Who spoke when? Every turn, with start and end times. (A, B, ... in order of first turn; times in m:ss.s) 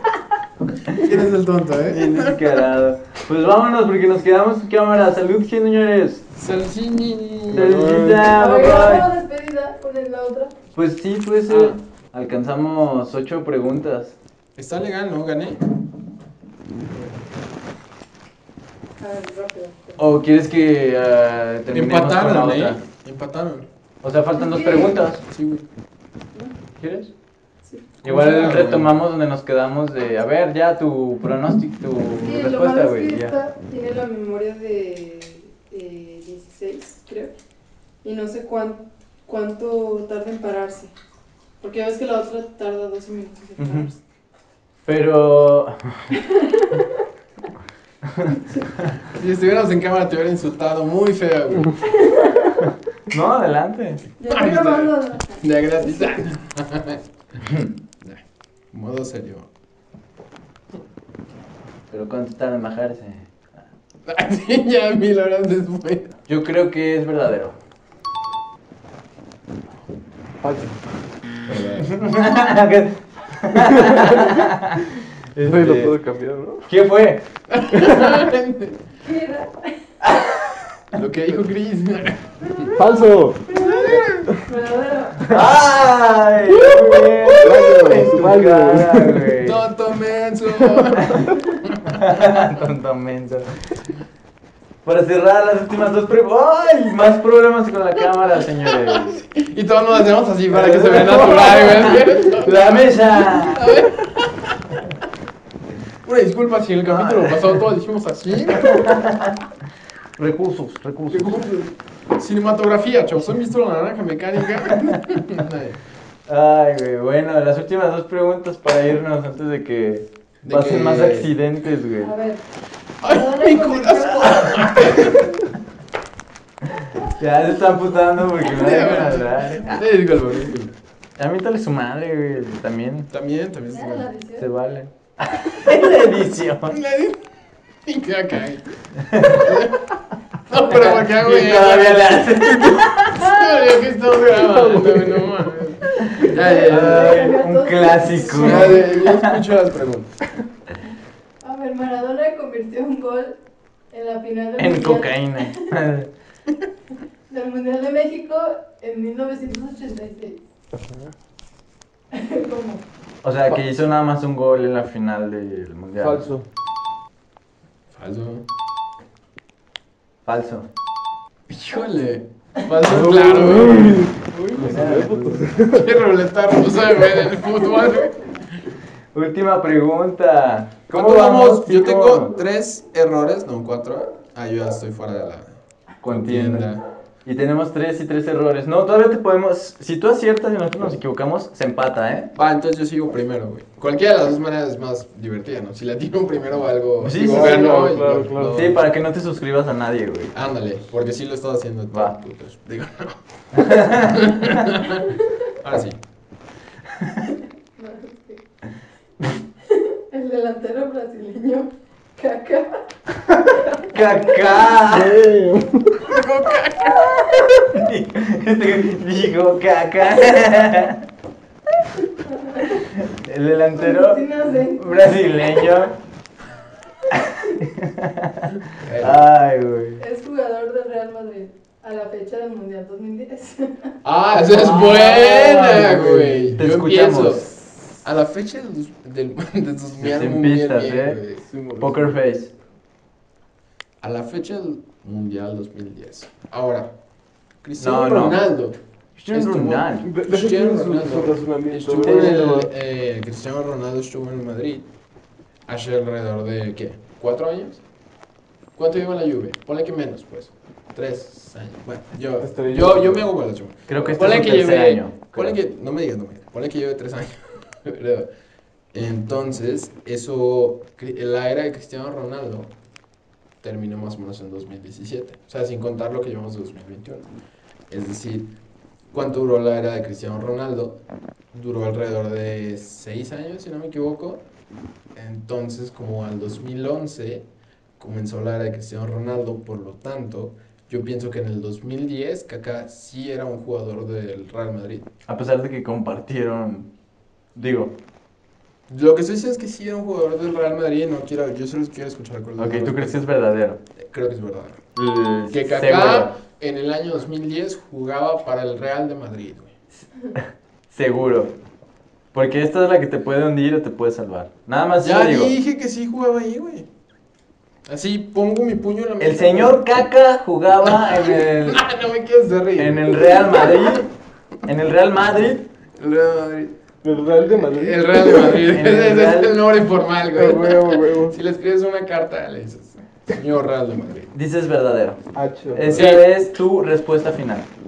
0:00.9-0:02.6 A
0:01.9-0:06.2 B
0:06.4-0:07.8 A
0:07.5-0:08.3 C
0:07.5-0:09.1 B
0:08.3-0:10.5 D
0:10.7-0:14.1 B
0:11.5-0:11.8 A
0:14.6-0:15.6 A
0:19.0-0:20.0 D
0:20.0-0:22.8 B
0:21.7-0:23.6 A
0:24.0-0:25.2 B
0:24.4-0:25.0 D
0:25.3-0:25.6 A
0:26.8-0:27.1 B
0:27.6-0:27.9 D
0:28.0-0:28.9 A
0:28.0-0:33.3 B
0:32.2-0:37.3 D
0:38.0-0:40.9 D
0:41.6-0:44.0 D
0:43.6-0:43.9 B
0:44.8-0:46.2 B
0:46.2-0:46.9 D
0:48.3-0:48.7 D
0:49.1-0:51.8 A
0:52.0-0:52.5 D
0:53.1-0:54.0 B
0:54.2-0:56.2 D
0:54.2-0:57.0 A
0:57.4-0:57.7 B
0:58.7-0:59.5 A
1:01.9-1:03.5 B
1:04.0-1:06.2 A
1:06.3-1:07.6 B
1:10.4-1:10.8 C
1:11.4-1:12.0 A
1:11.8-1:15.9 B
1:13.9-1:14.1 C
1:15.4-1:16.7 C
1:16.7-1:17.2 B
1:17.5-1:18.8 A
1:19.0-1:19.8 D
1:20.0-1:20.6 B
1:20.9-1:22.7 A
1:22.7-1:23.5 C
1:23.5-1:25.4 D
1:23.6-1:24.2 A
1:25.2-1:29.6 B
1:26.5-1:28.0 A
1:27.4-1:29.3 C
1:29.4-1:32.0 A
1:31.0-1:31.3 B
1:31.9-1:33.5 B
1:34.8-1:39.2 B
1:38.8-1:44.6 A
1:40.5-1:43.8 B
1:46.0-1:49.0 A
1:46.9-1:47.5 B
1:48.5-1:49.4 B
1:50.2-1:51.4 B
1:51.1-1:55.8 A
1:56.3-2:02.1 B
2:00.4-2:01.3 A
2:02.0-2:02.4 D
2:03.0-2:05.4 A
2:03.0-2:05.1 D
2:07.0-2:09.8 B
2:08.4-2:10.7 A
2:11.2-2:13.1 B
2:13.1-2:14.1 A
2:13.7-2:14.5 D
2:14.4-2:16.8 B
2:16.7-2:17.2 A
2:17.8-2:18.6 A
2:19.0-2:19.6 B
2:19.2-2:20.0 A
2:20.5-2:27.2 A
2:20.6-2:23.5 B
2:24.4-2:25.4 C
2:26.0-2:29.4 B
2:26.0-2:29.0 D
2:28.2-2:30.2 A
2:31.4-2:33.4 D
2:33.9-2:35.6 D
2:34.6-2:36.1 B
2:37.3-2:40.4 D
2:40.7-2:41.1 C
2:42.1-2:42.8 D
2:43.2-2:46.3 B
2:46.0-2:46.4 C
2:47.9-2:48.4 A
2:50.2-2:50.7 B
2:51.5-2:54.6 A
2:52.8-2:55.9 C
2:54.5-2:55.5 B
2:55.6-2:58.3 A
2:59.1-3:02.3 B
3:00.9-3:06.8 A
3:06.0-3:06.7 B
3:07.2-3:12.3 B
3:12.3-3:18.8 A
3:17.0-3:20.3 B
3:17.2-3:18.8 C
3:20.3-3:25.1 A
3:21.9-3:22.2 B
3:23.5-3:24.7 B
3:25.6-3:26.0 A
3:27.0-3:27.3 B
3:27.8-3:28.4 D
3:29.6-3:34.7 D
3:33.9-3:35.2 B
3:34.9-3:36.1 C
3:36.1-3:37.1 A
3:36.9-3:37.6 D
3:37.5-3:41.0 B
3:42.3-3:42.8 D
3:42.7-3:45.9 B
3:43.7-3:45.1 D
3:47.1-3:50.0 B
3:48.8-3:49.2 A
3:50.0-3:53.9 D
3:54.0-4:01.4 A
3:54.4-3:57.5 B
4:00.0-4:01.2 B
4:01.4-4:02.2 C
4:01.8-4:02.5 B
4:04.0-4:06.9 A
4:07.6-4:08.8 A
4:07.8-4:08.5 B
4:09.2-4:10.1 B
4:09.3-4:14.9 A
4:10.0-4:12.7 C
4:12.0-4:12.5 B
4:15.7-4:17.8 A
4:18.7-4:28.3 A
4:22.4-4:23.3 C
4:23.9-4:25.6 B
4:28.9-4:32.7 A
4:33.6-4:37.3 A
4:37.9-4:38.5 A
4:39.1-4:44.4 A
4:45.1-4:47.5 A
4:48.0-4:55.1 A
4:55.3-4:56.9 B
4:57.5-4:57.9 B
4:58.9-5:03.3 A
5:02.6-5:03.8 B
5:04.0-5:04.8 A
5:05.0-5:06.3 B
5:05.5-5:09.7 A
5:10.3-5:11.5 B
5:12.3-5:15.5 B
5:15.0-5:16.8 A
5:17.8-5:19.9 A
5:19.2-5:21.8 B
5:20.8-5:23.9 A
5:22.8-5:24.1 B
5:24.6-5:25.7 B
5:26.0-5:26.7 A
5:27.0-5:28.6 C
5:27.6-5:34.3 A
5:28.6-5:29.6 B
5:30.3-5:31.4 C
5:34.3-5:37.7 B
5:35.3-5:36.0 C
5:35.9-5:36.3 A